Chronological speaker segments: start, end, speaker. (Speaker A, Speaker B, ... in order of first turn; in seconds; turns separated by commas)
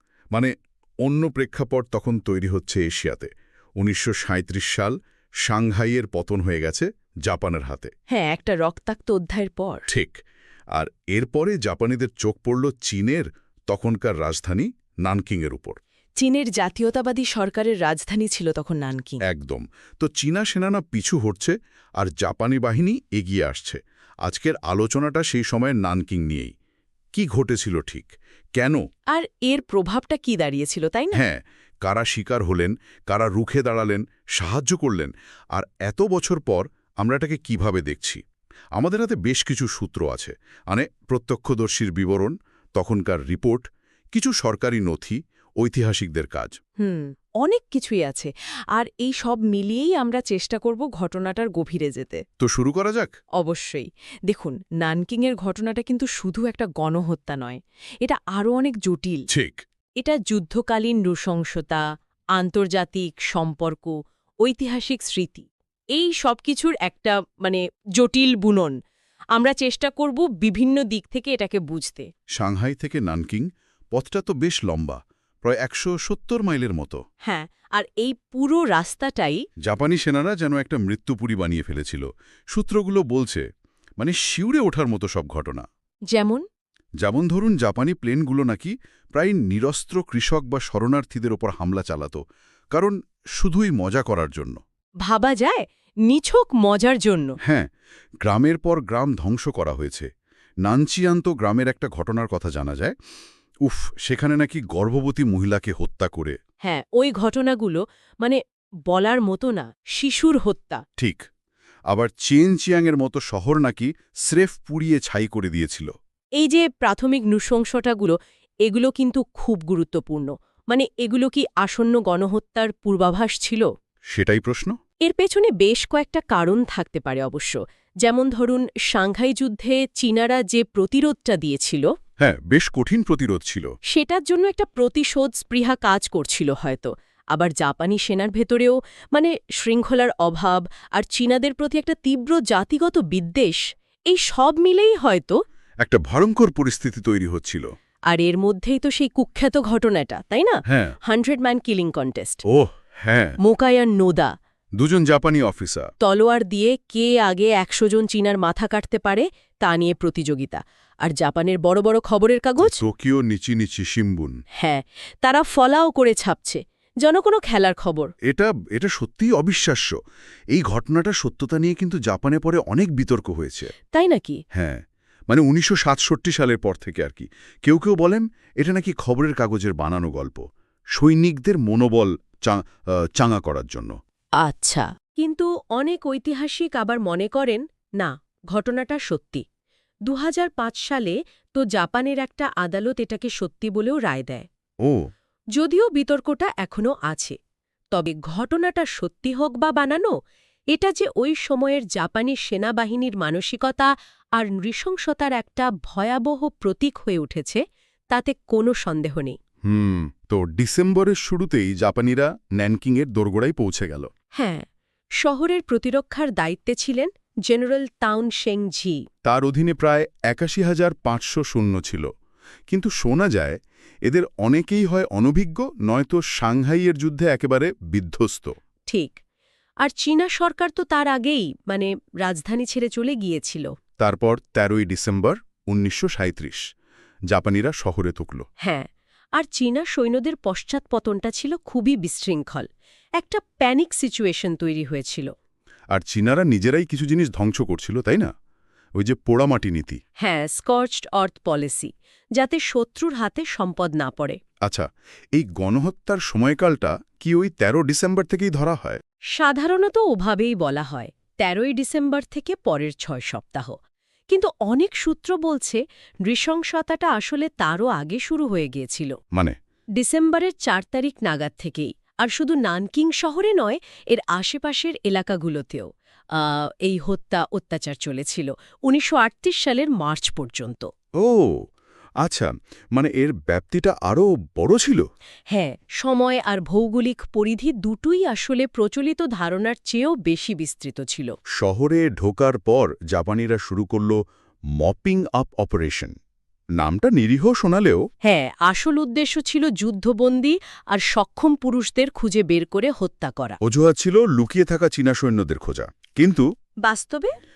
Speaker A: 1.0-7.9, Speaker B: 8.1-9.9, Speaker A: 9.9-10.2, Speaker A: 10.7-15.8, Speaker B: 16.2-19.2, Speaker A: 19.2-26.5, Speaker A: 27.1-28.8, Speaker B: 29.1-31.2, Speaker A: 31.1-38.2, Speaker A: 38.8-46.6, Speaker B: 46.8-52.2, Speaker A: 52.4-53.1, Speaker B: 53.4-59.3, Speaker A: 59.3-59.6, Speaker B: 60.0-61.8, Speaker B: 62.4-68.8, Speaker B: 69.3-72.1, Speaker A: 72.4-77.0, Speaker B: 77.2-79.4, Speaker A: 79.7-83.5, Speaker A: 84.0-85.7, Speaker B: 86.1-86.5, Speaker A: 87.0-92.2, Speaker A: 92.7-94.6, Speaker B: 95.0-97.4, Speaker A: 97.4-97.7, Speaker A: 98.2-100.1, Speaker A: 100.6-103.0, Speaker A: 103.7-106.4, Speaker B: 106.6-110.8, Speaker A: 111.0-111.2, Speaker A: 111.9-115.9, Speaker B: 116.4-123.7, Speaker A: 124.1-124.8, Speaker B: 125.0-131.9, Speaker A: 132.2-133.7, Speaker B: 133.9-145.4, Speaker A: 145.8-147.7, Speaker B: 148.1-152.4, Speaker A: 150.7-151.0, Speaker A: 152.5-153.3, Speaker B: 153.4-154.3, Speaker A: 154.8-155.9, Speaker B: 156.0-162.8, Speaker A: 162.6-164.4, Speaker B: 164.6-168.1, Speaker A: 168.2-169.9, Speaker A: 170.5-173.7, Speaker B: 173.9-174.4, Speaker A: 174.5-180.4, Speaker A: 181.0-184.0, Speaker B: 184.4-189.4, Speaker B: 190.1-194.5, Speaker B: 195.6-197.4, Speaker B: 197.9-200.1, Speaker B: 200.7-209.3, Speaker A: 209.7-214.1, Speaker B: 214.4-214.7, Speaker B: 215.2-219.0, Speaker A: 219.2-222.1, Speaker A: 222.7-228.6, Speaker B: 228.9-229.2, Speaker B: 229.8-233.7, Speaker A: 234.0-236.6, Speaker A: 237.3-238.5, Speaker B: 238.6-242.7, Speaker B: 243.2-245.3, Speaker A: 245.9-248.3, Speaker A: 249.0-250.0, Speaker B: 250.2-254.4, Speaker A: 254.7-259.0, Speaker B: 259.4-263.8, Speaker B: 264.3-269.1, Speaker B: 270.0-280.9, Speaker A: 281.2-281.6, Speaker A: 282.2-285.0, Speaker B: 285.5-291.4, Speaker A: 291.6-294.2, Speaker A: 294.8-296.1, Speaker A: 296.8-298.0, Speaker B: 298.2-303.6, Speaker A: 303.6-306.4, Speaker B: 306.8-307.3